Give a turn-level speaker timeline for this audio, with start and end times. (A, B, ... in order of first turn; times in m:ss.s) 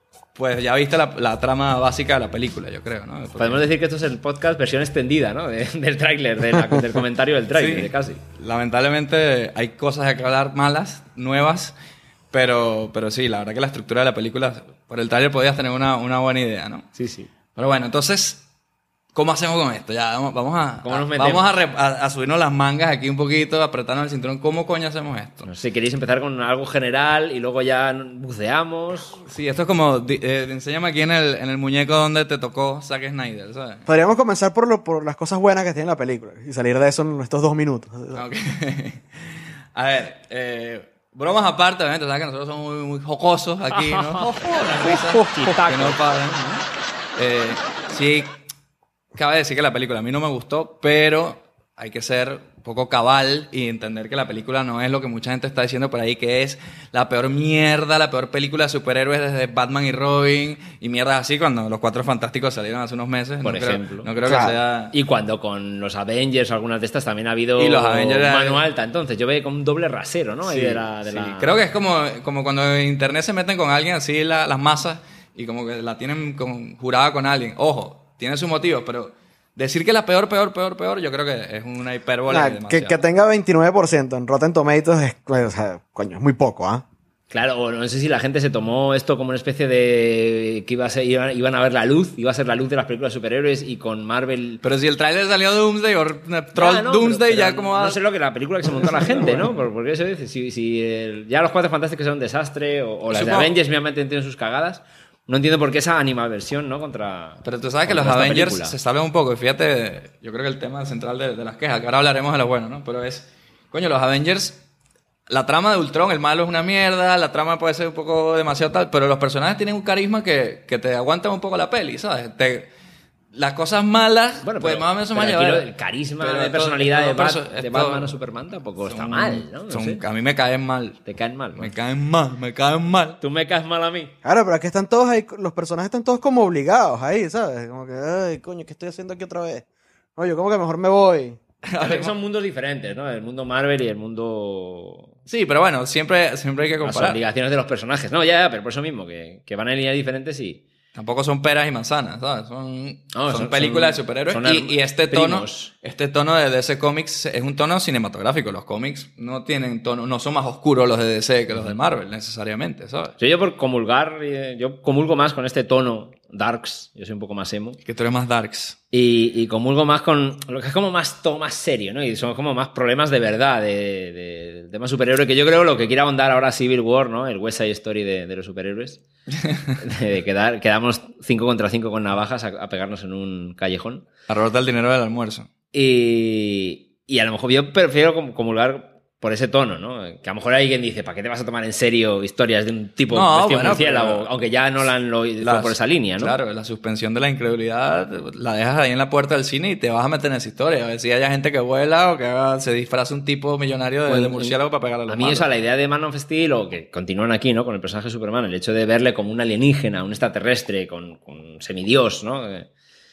0:00.4-0:03.7 A
0:03.4-0:08.2 B
0:07.6-0:11.7 A
0:12.3-0:16.9 A
0:17.0-0:17.3 B
0:17.6-0:18.4 A
0:19.2-0:25.5 A
0:20.8-0:21.5 B
0:25.4-0:29.2 B
0:29.2-0:33.9 A
0:33.9-0:38.2 C
0:38.1-0:46.6 A
0:43.7-0:46.0 B
0:47.2-0:48.4 A
0:49.2-1:04.9 A
1:03.4-1:04.1 B
1:04.2-1:04.6 C
1:04.9-1:11.6 B
1:07.6-1:08.6 A
1:10.5-1:23.0 A
1:22.3-1:26.8 C
1:27.3-1:34.6 B
1:34.6-1:38.0 A
1:36.6-1:48.8 B
1:39.2-1:39.5 C
1:43.1-1:43.5 A
1:47.4-1:54.6 A
1:55.3-2:02.7 A
2:03.3-2:08.2 A
2:04.4-2:10.0 B
2:08.9-2:11.0 A
2:11.1-2:11.7 B
2:11.6-2:13.2 A
2:13.2-2:14.1 B
2:14.2-2:19.6 C
2:20.2-2:21.4 C
2:21.6-2:22.1 A
2:21.8-2:25.1 B
2:25.3-2:27.2 A
2:26.8-2:30.6 B
2:30.9-2:43.2 A
2:33.1-2:35.7 B
2:43.2-2:47.8 B
2:47.8-2:48.8 A
2:48.9-2:59.0 B
2:59.4-2:59.7 A
2:59.8-3:04.1 B
3:04.3-3:05.5 A
3:05.7-3:16.4 B
3:13.1-3:14.3 A
3:15.4-3:25.5 A
3:24.1-3:24.6 B
3:25.1-3:32.7 B